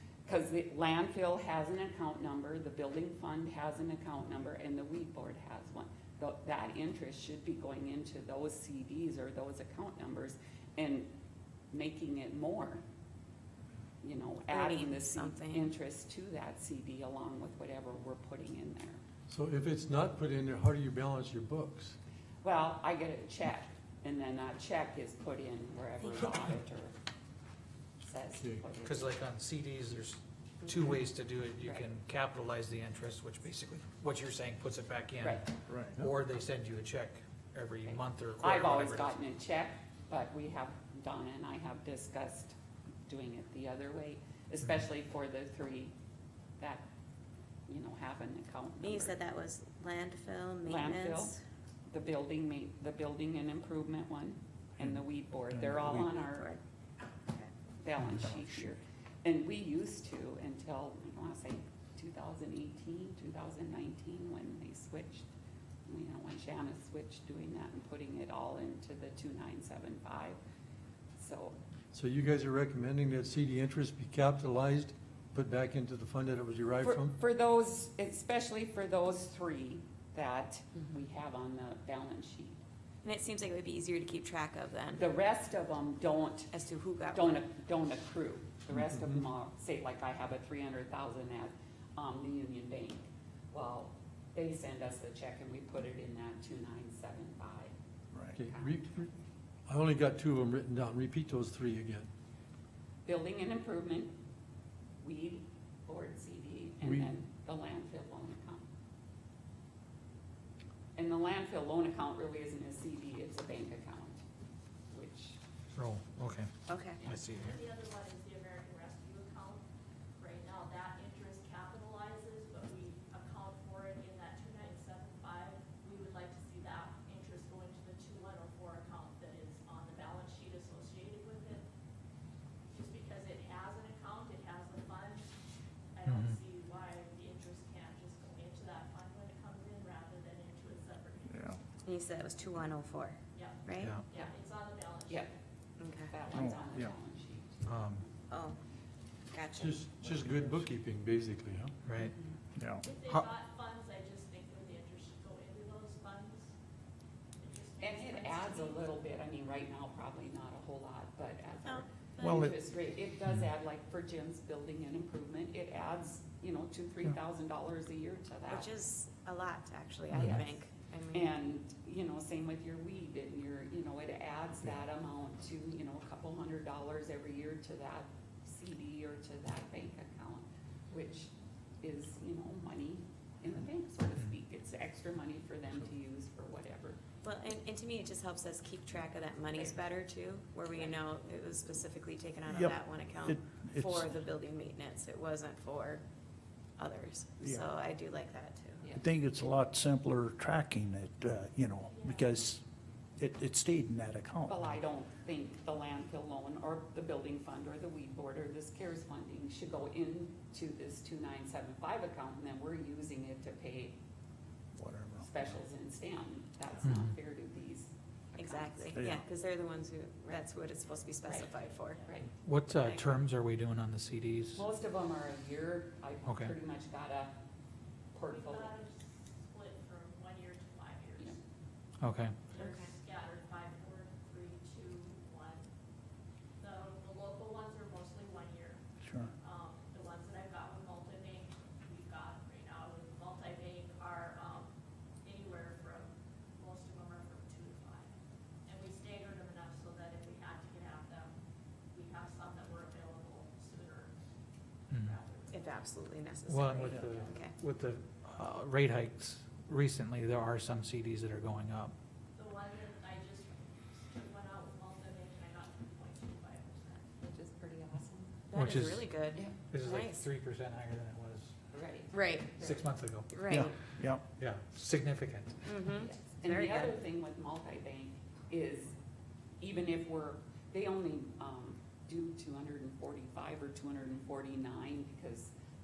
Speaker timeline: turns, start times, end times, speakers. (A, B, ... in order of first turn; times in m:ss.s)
0:00.2-0:11.1 A
0:11.7-0:12.8 A
0:14.0-0:19.0 A
0:14.5-0:15.7 B
0:19.3-0:22.0 C
0:22.4-0:27.0 A
0:28.0-0:29.2 A
0:28.8-0:39.2 D
0:31.6-0:31.9 A
0:35.7-0:36.0 E
0:37.8-0:46.0 A
0:46.6-0:46.8 A
0:47.7-0:49.2 A
0:48.8-0:51.4 B
0:50.6-0:51.4 A
0:51.9-0:56.5 A
0:55.8-0:56.6 B
0:57.2-0:57.5 B
0:57.8-1:05.3 A
1:05.9-1:10.4 A
1:11.2-1:11.6 A
1:11.9-1:17.2 C
1:16.8-1:22.6 A
1:23.0-1:25.1 B
1:24.9-1:26.5 A
1:26.5-1:27.4 B
1:27.1-1:37.7 A
1:38.1-1:38.4 E
1:38.3-1:39.1 C
1:38.4-1:38.8 A
1:39.7-1:42.1 C
1:43.0-1:44.1 A
1:45.0-1:48.7 A
1:46.8-1:47.1 C
1:51.0-1:54.2 A
1:54.9-1:55.4 A
1:55.8-1:56.5 D
1:56.7-1:57.0 B
1:57.0-1:57.6 D
1:57.4-1:59.6 F
2:00.2-2:11.6 F
2:12.7-2:15.3 F
2:16.0-2:21.6 F
2:16.1-2:16.4 D
2:21.3-2:21.6 E
2:21.8-2:24.0 B
2:23.3-2:25.4 F
2:23.8-2:24.0 D
2:25.8-2:26.1 B
2:26.1-2:28.1 A
2:26.3-2:26.9 E
2:27.7-2:28.0 D
2:28.3-2:28.6 B
2:29.3-2:29.9 B
2:29.6-2:31.7 C
2:30.1-2:30.5 E
2:31.8-2:32.2 D
2:32.0-2:32.3 B
2:32.6-2:32.8 E
2:32.8-2:36.5 F
2:37.4-2:38.9 F
2:37.8-2:48.7 A
2:41.7-2:42.5 B
2:42.2-2:42.6 E
2:48.5-2:51.3 B
2:50.1-2:50.4 D
2:51.1-3:07.0 A
3:07.2-3:16.0 B
3:12.5-3:14.2 E
3:16.8-3:18.8 B
3:19.0-3:22.6 E
3:21.9-3:22.3 F
3:23.2-3:24.7 E
3:24.5-3:34.0 A
3:34.8-3:35.3 E
3:35.2-3:38.9 A
3:36.8-3:37.1 D
3:38.4-3:42.0 B
3:39.0-3:39.2 E
3:41.9-3:42.2 F
3:42.4-3:44.6 D
3:42.7-3:43.2 B
3:44.6-3:47.4 A
3:46.3-3:46.5 D
3:48.1-3:48.8 A
3:48.3-3:51.4 F
3:52.0-3:52.4 D
3:52.5-3:55.7 F
3:52.5-3:52.9 B
3:56.6-4:04.7 F
3:59.0-3:59.3 E
4:05.2-4:08.1 F
4:08.7-4:11.3 F
4:11.9-4:14.2 F
4:14.9-4:15.2 D
4:14.9-4:15.9 F
4:15.5-4:17.5 B
4:16.5-4:21.9 D
4:22.4-4:27.1 F
4:27.2-4:28.4 A
4:28.5-4:30.3 B
4:28.5-4:31.7 D
4:31.7-4:32.8 A
4:32.1-4:32.6 B
4:32.6-4:33.7 D
4:33.3-4:33.8 B
4:33.5-4:34.2 E
4:34.3-4:35.6 D
4:35.6-4:36.9 B
4:36.0-4:38.9 A
4:39.6-4:45.5 A